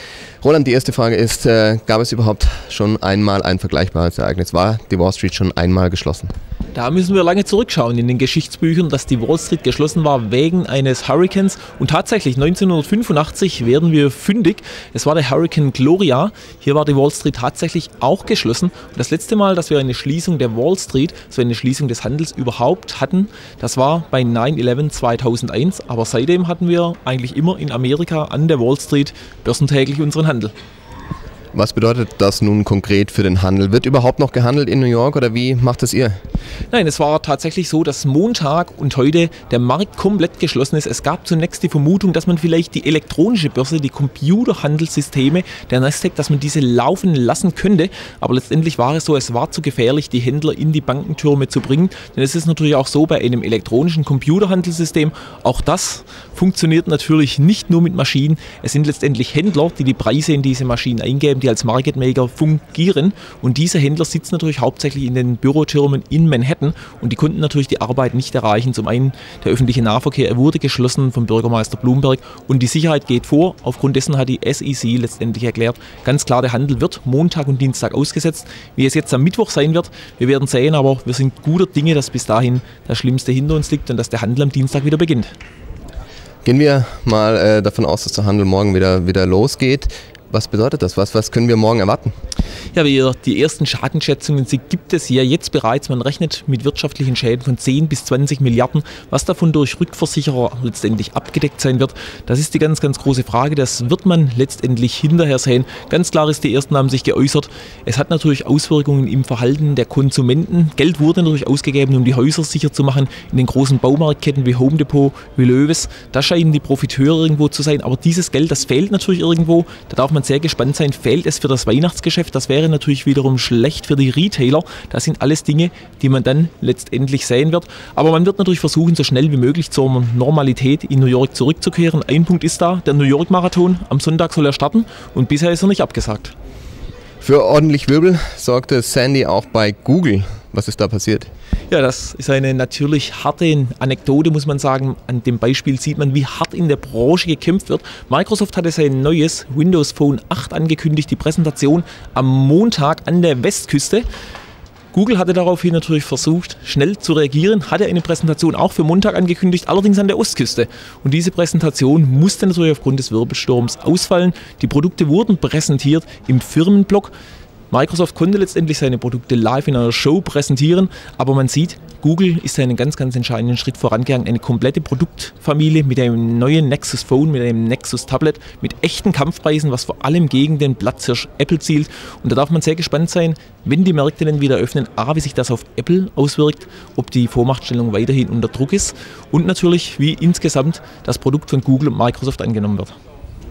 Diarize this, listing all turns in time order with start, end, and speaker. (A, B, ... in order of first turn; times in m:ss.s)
0:00.4-0:06.3 A
0:06.7-0:30.5 B
0:31.5-0:36.1 A
0:36.7-1:25.3 B
1:26.4-1:32.1 A
1:32.7-2:16.3 B
2:17.2-2:21.3 A
2:21.7-2:34.1 B
2:34.9-2:47.1 B
2:47.7-3:12.9 B